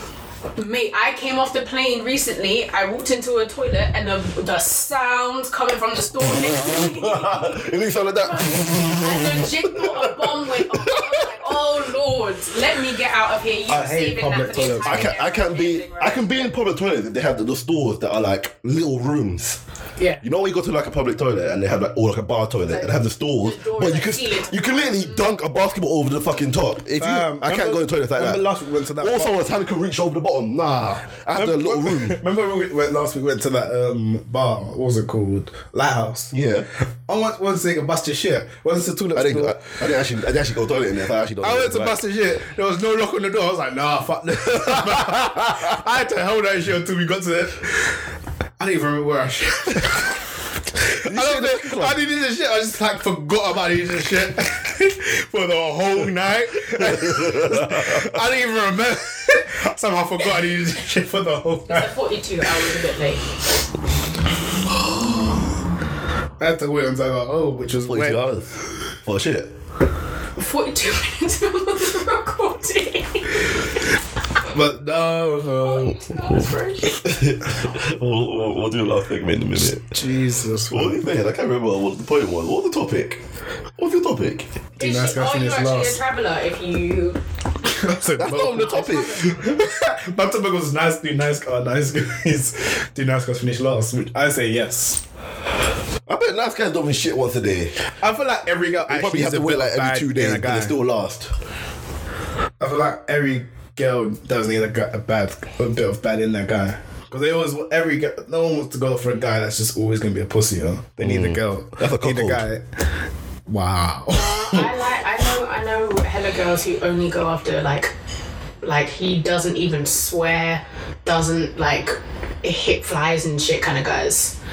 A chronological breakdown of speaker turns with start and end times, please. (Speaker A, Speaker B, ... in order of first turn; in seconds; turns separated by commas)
Speaker A: 0.6-7.5, Speaker B: 6.3-11.5, Speaker A: 8.2-16.5, Speaker C: 13.7-15.1, Speaker B: 14.8-19.6, Speaker B: 20.2-28.4, Speaker A: 22.7-25.3, Speaker C: 27.0-29.4, Speaker B: 29.0-32.2, Speaker C: 31.4-36.3, Speaker B: 36.3-36.7, Speaker C: 37.1-39.7, Speaker B: 39.1-42.0, Speaker C: 41.4-48.0, Speaker B: 44.7-45.7, Speaker C: 48.6-50.2, Speaker C: 50.9-61.9, Speaker B: 51.0-52.0, Speaker B: 56.7-58.2, Speaker A: 61.7-63.2, Speaker C: 66.4-68.2, Speaker B: 67.8-69.5, Speaker A: 70.4-73.8, Speaker C: 74.5-76.2, Speaker A: 75.6-77.1, Speaker B: 77.0-80.0, Speaker C: 79.6-81.0, Speaker B: 80.7-83.2, Speaker B: 83.8-84.5, Speaker C: 84.8-86.0, Speaker A: 84.8-87.2, Speaker C: 87.7-95.0, Speaker B: 88.2-89.3, Speaker A: 88.3-89.7, Speaker B: 96.1-97.8, Speaker C: 97.9-100.8, Speaker B: 98.9-101.3, Speaker C: 102.6-112.6, Speaker B: 111.0-112.5, Speaker C: 113.5-114.7, Speaker A: 114.1-117.9, Speaker A: 118.6-124.3